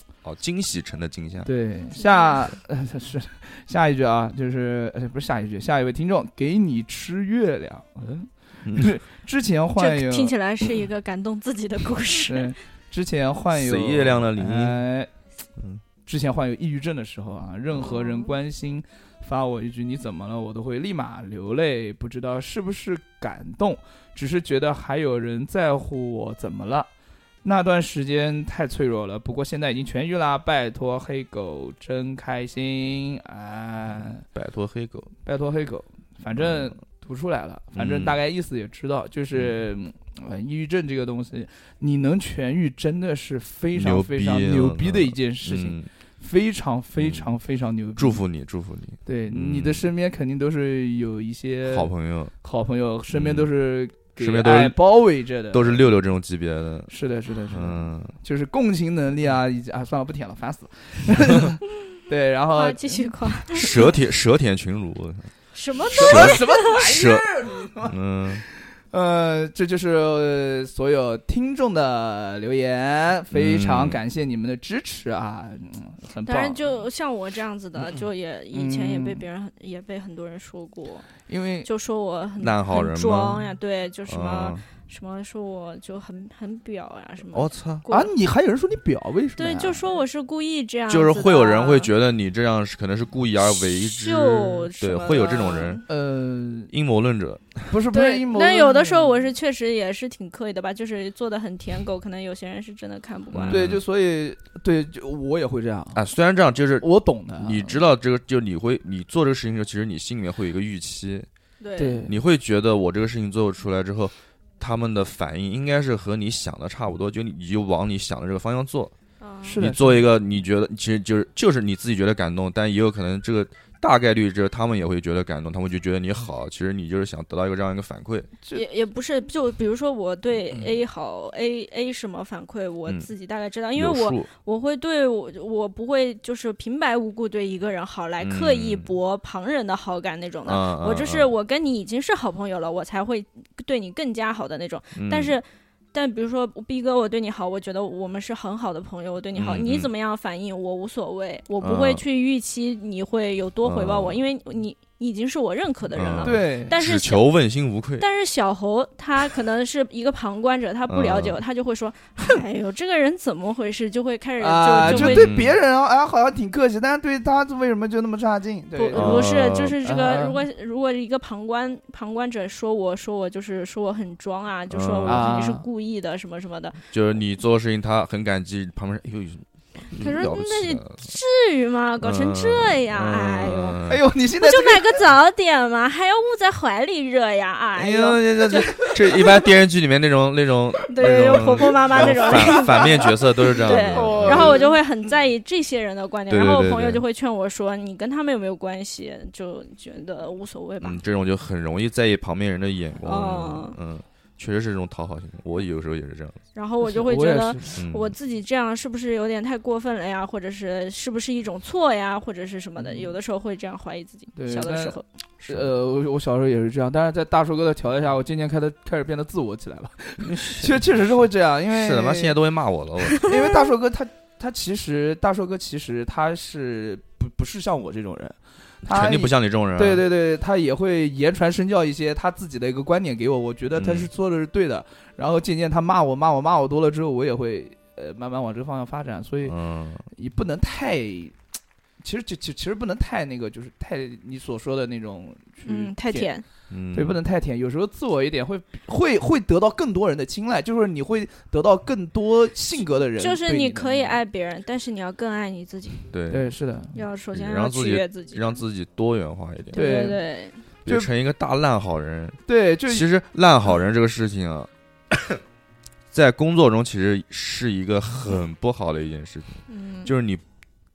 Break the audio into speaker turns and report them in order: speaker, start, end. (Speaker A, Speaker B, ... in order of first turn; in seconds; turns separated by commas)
Speaker A: 0.2-1.5, Speaker B: 1.4-10.3, Speaker C: 2.0-2.4, Speaker A: 8.6-8.9, Speaker C: 9.8-12.5, Speaker B: 12.3-15.1, Speaker A: 13.5-14.8, Speaker B: 16.1-26.9, Speaker C: 17.8-18.3, Speaker B: 27.4-34.2, Speaker A: 34.3-35.1, Speaker B: 35.2-48.2, Speaker A: 37.7-38.1, Speaker A: 43.7-45.9, Speaker A: 47.0-47.3, Speaker A: 48.0-49.9, Speaker B: 49.0-55.9, Speaker A: 51.7-52.3, Speaker A: 53.1-53.5, Speaker A: 54.2-54.8, Speaker A: 55.5-56.9, Speaker B: 56.9-63.1, Speaker A: 57.5-58.1, Speaker C: 62.5-63.9, Speaker A: 63.5-65.3, Speaker C: 65.5-66.8, Speaker B: 65.9-76.8, Speaker A: 65.9-68.4, Speaker A: 73.3-74.0, Speaker C: 76.2-81.1, Speaker B: 78.5-79.2, Speaker B: 81.3-81.7, Speaker C: 81.6-88.1, Speaker A: 82.4-83.5, Speaker A: 84.1-84.6, Speaker A: 87.3-87.8, Speaker B: 87.9-89.8, Speaker C: 89.4-91.9, Speaker A: 90.9-95.8, Speaker C: 93.5-95.8, Speaker B: 95.9-96.7, Speaker A: 96.7-97.7, Speaker B: 97.7-99.2, Speaker C: 97.9-103.7, Speaker A: 103.3-103.8, Speaker B: 103.5-106.0, Speaker A: 105.9-106.8, Speaker B: 106.8-107.8, Speaker A: 107.4-111.3, Speaker C: 111.6-112.0, Speaker B: 111.8-112.1, Speaker A: 112.0-118.9, Speaker C: 119.2-119.6, Speaker B: 119.4-120.1, Speaker A: 119.6-128.3, Speaker C: 128.5-157.2, Speaker A: 133.7-134.3, Speaker A: 138.2-138.9, Speaker A: 140.4-141.3, Speaker A: 144.9-145.4, Speaker A: 149.3-149.9, Speaker A: 151.6-152.0, Speaker A: 153.6-154.2, Speaker A: 155.9-158.0, Speaker B: 156.2-156.7, Speaker C: 158.0-165.3, Speaker A: 160.9-161.4, Speaker B: 164.4-169.3, Speaker A: 164.8-165.6, Speaker C: 168.8-176.8, Speaker A: 168.9-169.8, Speaker B: 169.8-170.4, Speaker A: 174.7-175.3, Speaker B: 175.1-175.6, Speaker A: 176.9-181.0, Speaker C: 180.0-183.8, Speaker A: 182.0-184.0, Speaker B: 183.9-185.0, Speaker C: 184.4-189.5, Speaker B: 187.8-188.8, Speaker A: 188.0-194.7, Speaker C: 190.9-201.0, Speaker B: 191.9-194.8, Speaker A: 196.3-197.0, Speaker A: 200.8-206.4, Speaker C: 203.0-203.8, Speaker C: 206.5-215.0, Speaker B: 206.8-207.8, Speaker A: 207.8-208.1, Speaker B: 212.8-213.1, Speaker B: 214.3-222.4, Speaker A: 215.4-215.7, Speaker A: 220.2-220.9, Speaker A: 221.7-223.3, Speaker B: 223.2-239.5, Speaker A: 228.8-230.0, Speaker A: 233.8-234.1, Speaker A: 239.4-240.0, Speaker B: 240.1-241.3, Speaker B: 242.0-246.3, Speaker C: 245.6-246.4, Speaker A: 246.7-247.2, Speaker B: 246.9-254.2, Speaker C: 253.2-256.1, Speaker A: 256.1-256.5, Speaker B: 256.3-257.0, Speaker C: 256.9-258.6, Speaker A: 257.3-260.0, Speaker C: 259.7-260.6, Speaker B: 259.7-260.2, Speaker A: 260.8-265.4, Speaker B: 262.5-263.1, Speaker A: 266.1-270.4, Speaker C: 269.7-270.1